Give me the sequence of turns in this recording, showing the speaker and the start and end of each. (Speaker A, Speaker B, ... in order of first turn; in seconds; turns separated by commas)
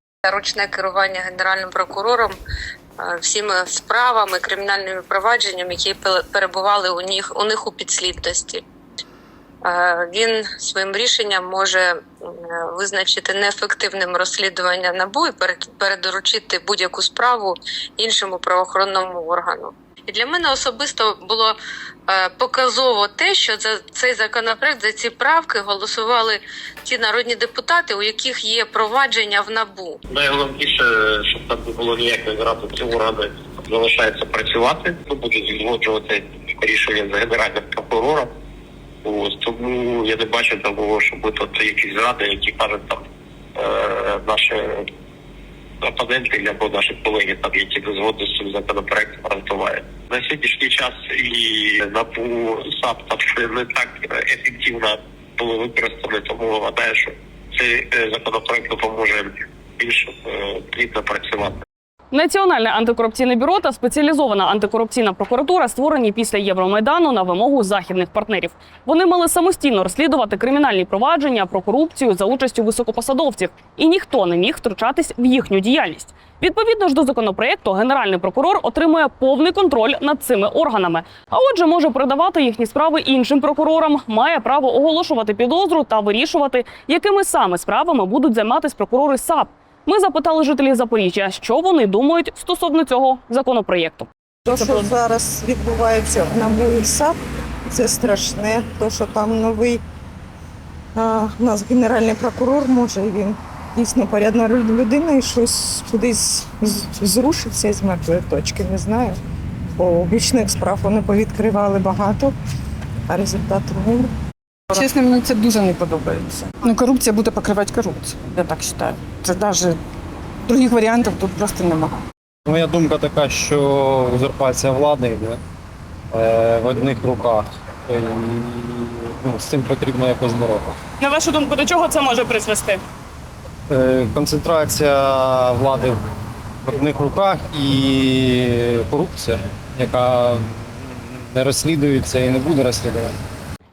Speaker A: 0.2-2.3, Speaker A: 3.0-8.6, Speaker A: 9.6-21.6, Speaker A: 22.1-30.0, Speaker B: 30.1-38.3, Speaker B: 39.0-43.0, Speaker B: 43.5-44.8, Speaker B: 45.8-61.6, Speaker C: 62.1-94.1, Speaker D: 94.5-97.2, Speaker D: 97.7-99.8, Speaker D: 100.9-109.2, Speaker D: 109.8-112.3, Speaker D: 113.1-114.1, Speaker E: 114.7-119.8, Speaker E: 120.4-121.9, Speaker F: 122.5-125.4, Speaker F: 126.1-130.8, Speaker C: 131.0-132.8, Speaker F: 133.7-136.0, Speaker F: 136.6-143.1